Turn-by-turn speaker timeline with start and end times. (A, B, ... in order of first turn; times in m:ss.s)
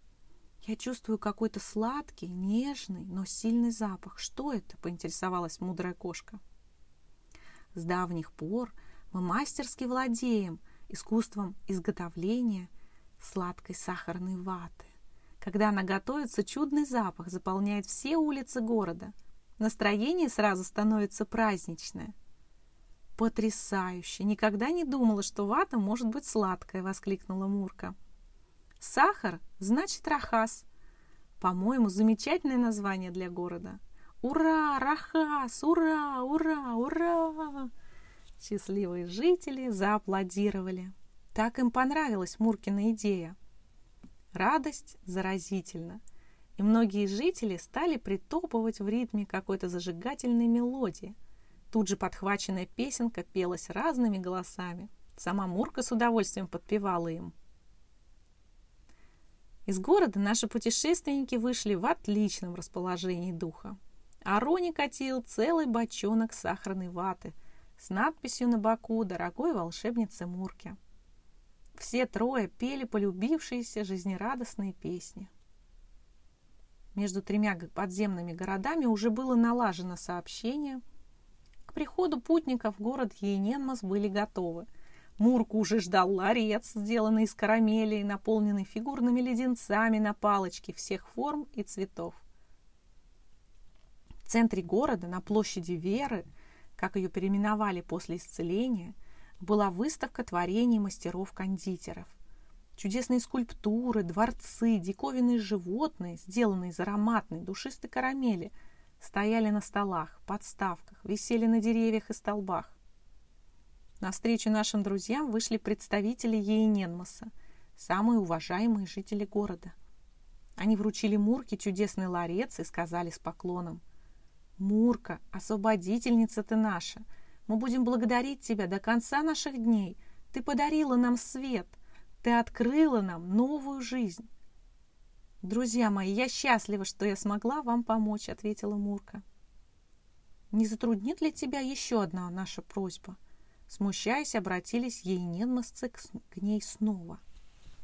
0:00.6-0:06.4 A
0:07.7-0:22.1 A
0:23.2-0:28.0 A
0:28.8-0:30.6 A
0:31.4-0:37.7 A
0:38.4-0:43.4 A
0:44.3-0:46.0 A
0:46.6-0:51.2 A
0:51.7-0:57.3 A
0:59.7-1:10.8 A
1:11.8-1:15.3 A
1:17.0-1:20.8 A
1:21.7-1:24.7 A
1:25.2-1:32.2 A
1:34.2-1:36.2 A
1:36.8-1:42.2 A
1:42.8-1:52.8 A
1:54.0-1:59.8 A
2:00.6-2:03.8 A
2:04.6-2:14.3 A
2:15.4-2:19.2 A
2:20.5-2:27.2 A